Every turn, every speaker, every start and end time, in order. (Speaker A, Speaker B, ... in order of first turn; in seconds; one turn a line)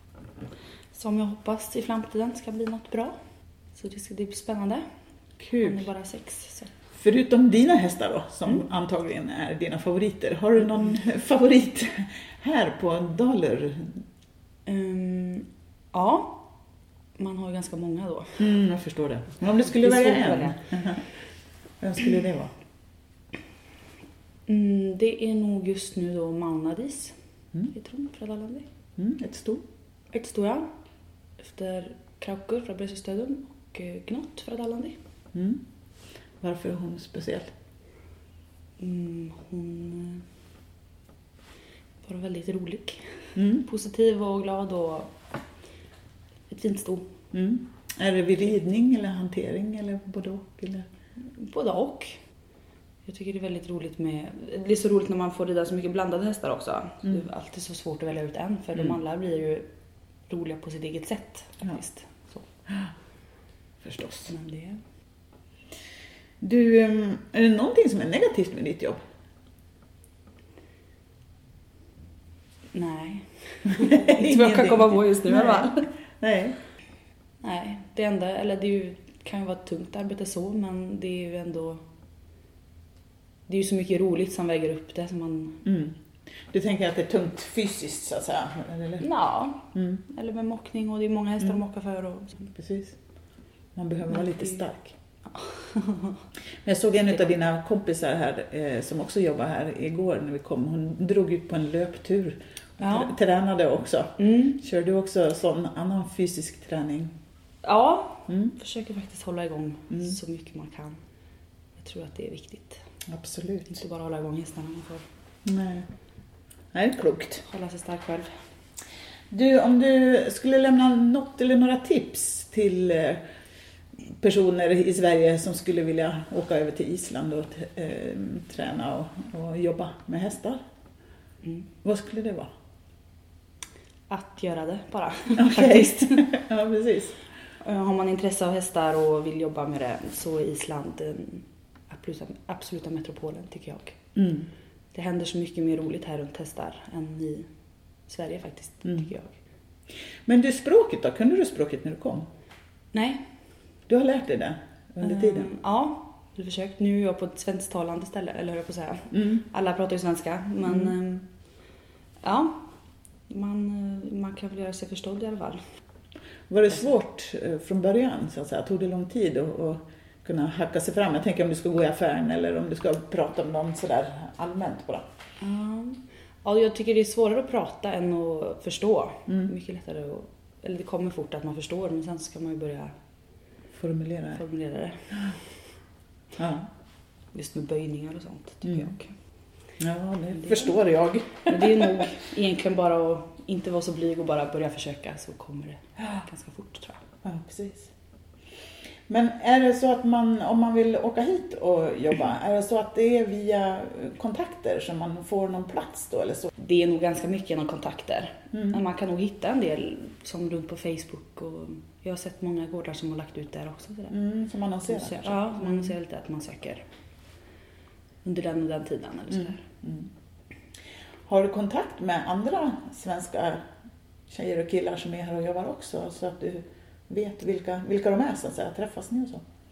Speaker A: 0.9-3.1
Speaker A: 3.7-4.8
Speaker B: 5.4-5.8
Speaker A: 5.6-6.7
Speaker B: 7.0-13.9
Speaker A: 14.7-16.5
Speaker A: 17.2-18.4
Speaker B: 18.4-21.0
Speaker A: 19.6-20.6
Speaker B: 21.8-22.5
Speaker A: 24.5-27.1
Speaker A: 27.7-28.7
Speaker B: 29.0-29.6
Speaker A: 30.1-30.7
Speaker A: 31.4-35.0
Speaker B: 35.3-35.6
Speaker B: 36.4-37.5
Speaker A: 38.8-40.2
Speaker A: 42.0-45.1
Speaker B: 43.3-43.6
Speaker A: 46.5-47.1
Speaker B: 47.3-50.9
Speaker A: 51.2-52.2
Speaker A: 53.0-59.7
Speaker A: 60.3-62.5
Speaker B: 63.8-64.3
Speaker A: 64.3-64.8
Speaker B: 66.4-69.0
Speaker A: 72.7-75.9
Speaker B: 73.7-76.6
Speaker A: 77.4-81.8
Speaker A: 83.5-85.6
Speaker B: 85.6-86.0
Speaker B: 86.5-89.0
Speaker A: 89.0-92.5
Speaker B: 89.7-90.0
Speaker B: 92.5-93.0
Speaker B: 93.7-94.9
Speaker A: 94.1-94.6
Speaker A: 95.3-96.2
Speaker B: 96.6-107.1
Speaker A: 102.8-103.1
Speaker A: 104.2-104.6
Speaker A: 107.6-111.0
Speaker B: 108.3-108.5
Speaker A: 111.8-112.8
Speaker B: 113.1-113.7
Speaker A: 113.7-115.0
Speaker B: 115.4-115.8
Speaker B: 116.7-117.4
Speaker A: 117.5-118.3
Speaker B: 119.3-123.2
Speaker B: 124.1-130.6
Speaker A: 131.4-131.7
Speaker B: 131.8-132.5
Speaker A: 134.1-136.2
Speaker B: 135.4-137.1
Speaker A: 137.6-144.0
Speaker B: 144.2-144.5
Speaker A: 144.9-147.5
Speaker A: 148.1-149.3
Speaker B: 150.2-152.3
Speaker A: 152.9-153.2
Speaker B: 153.9-155.5
Speaker A: 155.0-161.3
Speaker B: 159.1-159.4
Speaker A: 162.2-162.6
Speaker A: 163.3-165.6
Speaker B: 166.5-175.0
Speaker A: 175.4-182.9
Speaker B: 183.8-184.4
Speaker A: 184.3-185.0
Speaker B: 186.4-186.7
Speaker A: 187.3-189.1
Speaker B: 189.8-192.0
Speaker A: 190.3-190.7
Speaker A: 191.4-197.0
Speaker B: 197.2-197.9
Speaker B: 199.1-206.5
Speaker A: 206.6-214.2
Speaker B: 208.5-208.8
Speaker B: 214.1-215.9
Speaker A: 214.8-216.8
Speaker A: 218.2-219.6
Speaker B: 219.8-220.1
Speaker B: 221.3-223.6
Speaker B: 224.3-229.4